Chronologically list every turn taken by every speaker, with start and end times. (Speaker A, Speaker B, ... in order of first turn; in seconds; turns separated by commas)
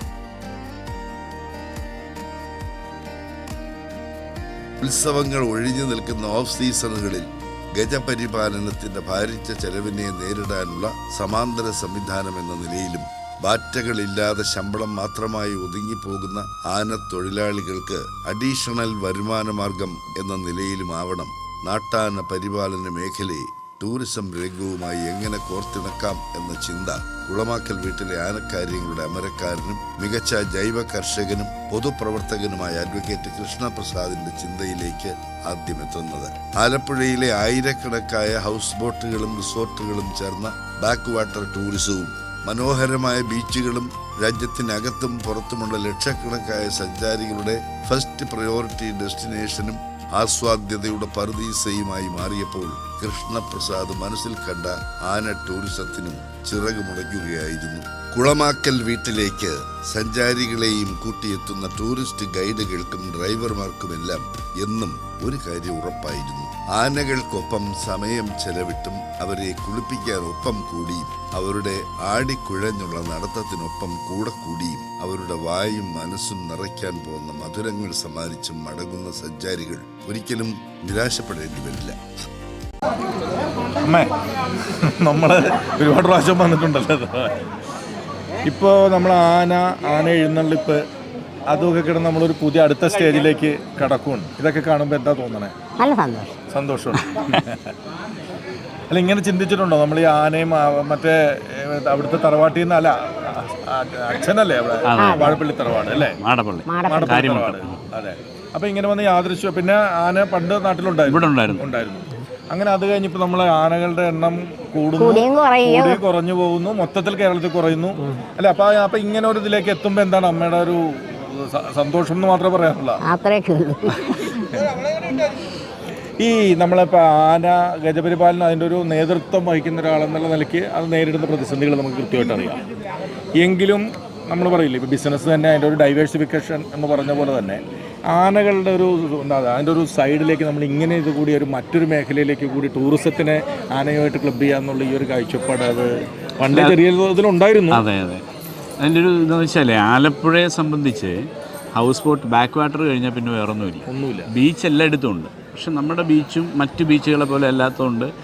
Speaker A: 4.8-82.0, Speaker B: 83.8-84.1, Speaker B: 84.8-87.4, Speaker B: 88.5-90.8, Speaker B: 91.5-95.5, Speaker C: 95.8-96.3, Speaker B: 96.5-97.7, Speaker B: 98.9-106.2, Speaker D: 104.9-107.8, Speaker C: 105.0-105.4, Speaker C: 106.7-107.2, Speaker B: 106.9-123.0, Speaker D: 111.1-111.7, Speaker C: 115.0-116.0, Speaker C: 123.0-124.2, Speaker B: 126.2-132.6, Speaker B: 133.4-147.8, Speaker D: 146.5-146.8, Speaker D: 147.7-148.2, Speaker D: 148.8-151.2, Speaker D: 151.8-158.1, Speaker B: 153.9-154.3